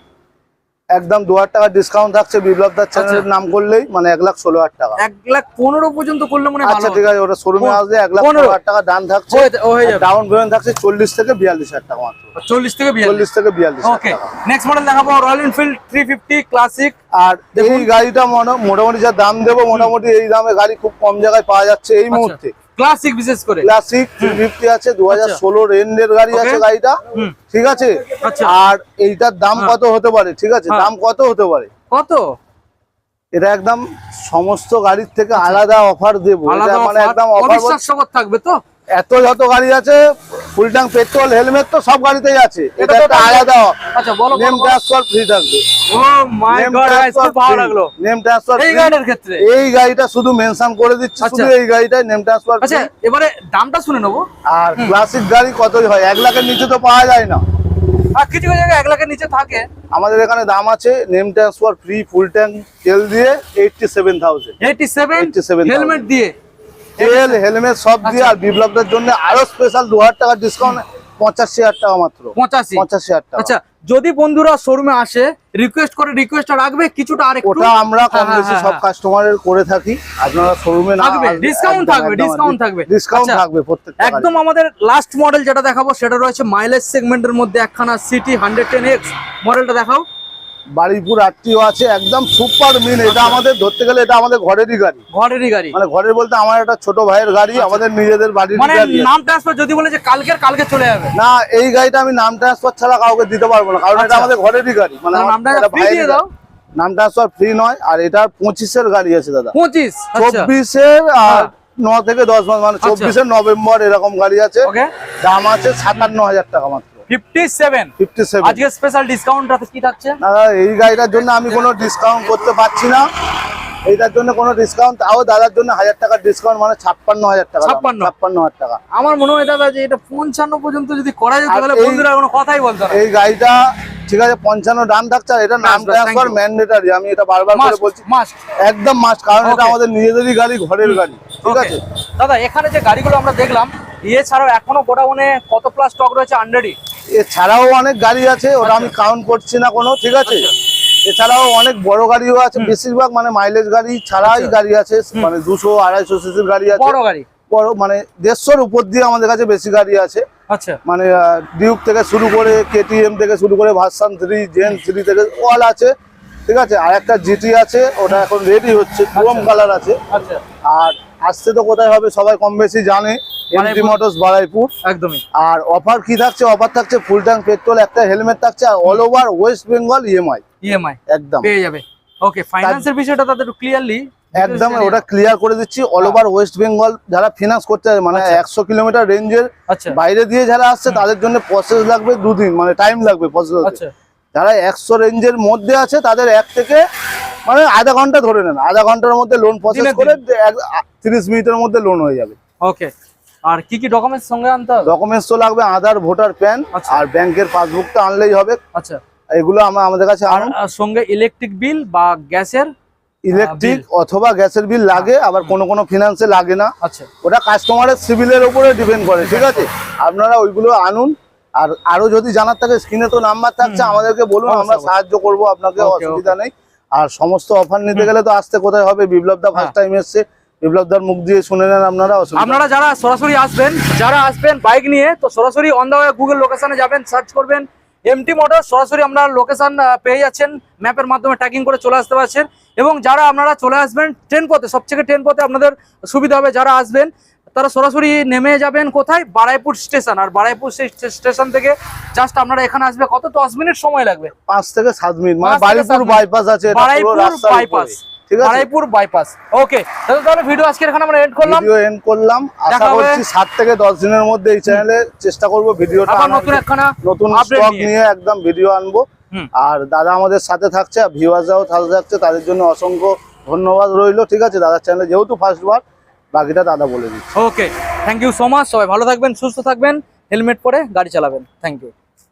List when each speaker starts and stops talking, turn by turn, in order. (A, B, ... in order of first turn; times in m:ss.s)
0:00.9-0:05.0 A
0:02.9-0:03.2 B
0:05.0-0:07.0 B
0:06.6-0:12.2 A
0:07.6-0:08.6 B
0:09.3-0:10.0 B
0:12.3-0:13.2 B
0:13.0-0:14.3 A
0:13.8-0:16.9 B
0:17.1-0:22.5 A
0:17.5-0:17.9 B
0:22.1-0:23.7 B
0:23.6-0:27.0 A
0:25.1-0:25.4 B
0:26.3-0:27.3 B
0:27.5-0:31.7 A
0:28.2-0:28.5 B
0:31.9-0:32.4 B
0:33.3-0:37.8 A
0:35.4-0:35.6 B
0:36.5-0:38.6 B
0:38.9-0:43.8 A
0:42.8-0:44.8 B
0:44.3-0:45.6 A
0:45.9-0:47.9 B
0:46.5-0:52.9 A
0:48.6-0:49.4 B
0:51.2-0:51.5 B
0:52.6-0:54.2 B
0:54.4-0:57.4 A
0:58.1-0:59.7 B
0:59.9-1:04.6 A
1:04.6-1:06.3 B
1:05.2-1:06.1 A
1:07.0-1:07.4 B
1:07.0-1:13.5 A
1:08.0-1:08.4 B
1:12.3-1:12.8 B
1:13.4-1:18.8 B
1:17.4-1:24.4 A
1:21.0-1:23.4 B
1:24.0-1:30.0 B
1:30.7-1:35.0 A
1:33.0-1:33.4 B
1:35.1-1:35.8 B
1:35.7-1:39.1 A
1:37.5-1:37.8 B
1:38.6-1:41.1 B
1:41.1-1:46.2 A
1:44.0-1:44.3 B
1:45.1-1:46.3 B
1:46.8-1:49.5 A
1:49.5-1:50.5 B
1:50.1-1:54.7 A
1:52.8-1:53.1 B
1:54.6-1:54.9 B
1:55.2-1:57.0 A
1:57.1-2:00.2 B
1:58.0-1:58.6 A
2:00.2-2:03.0 A
2:00.9-2:01.9 B
2:03.8-2:08.8 A
2:07.6-2:08.1 B
2:08.9-2:13.0 B
2:11.5-2:12.1 A
2:12.9-2:18.0 A
2:15.6-2:16.4 B
2:17.5-2:18.4 B
2:18.6-2:21.8 A
2:19.4-2:19.8 B
2:20.8-2:26.8 B
2:27.1-2:30.5 A
2:28.6-2:28.9 B
2:30.2-2:30.5 B
2:31.0-2:37.0 A
2:34.2-2:34.5 B
2:36.7-2:37.2 B
2:37.5-2:40.2 A
2:40.5-2:40.8 B
2:40.8-2:45.9 A
2:46.4-2:50.0 A
2:49.1-2:49.5 B
2:50.1-2:50.4 B
2:50.6-2:54.7 A
2:53.5-2:54.0 B
2:54.8-2:55.2 B
2:55.3-3:00.4 A
3:00.6-3:05.0 B
3:01.1-3:01.5 A
3:02.6-3:02.9 A
3:04.3-3:13.8 A
3:08.1-3:08.4 B
3:09.7-3:10.0 B
3:13.6-3:13.9 B
3:14.3-3:16.8 A
3:17.4-3:22.4 A
3:19.7-3:20.2 B
3:22.6-3:22.9 B
3:23.4-3:24.9 B
3:24.8-3:28.6 A
3:26.7-3:27.0 B
3:28.7-3:29.0 B
3:29.3-3:30.5 A
3:30.3-3:32.7 B
3:33.2-3:52.6 A
3:33.3-3:33.8 B
3:35.0-3:35.5 B
3:36.8-3:37.1 B
3:39.2-3:39.6 B
3:43.6-3:44.9 B
3:45.8-3:46.3 B
3:52.4-4:14.3 B
4:14.5-4:18.7 A
4:15.4-4:21.7 B
4:21.4-4:37.2 A
4:22.7-4:23.2 B
4:26.1-4:27.9 B
4:37.3-4:41.9 B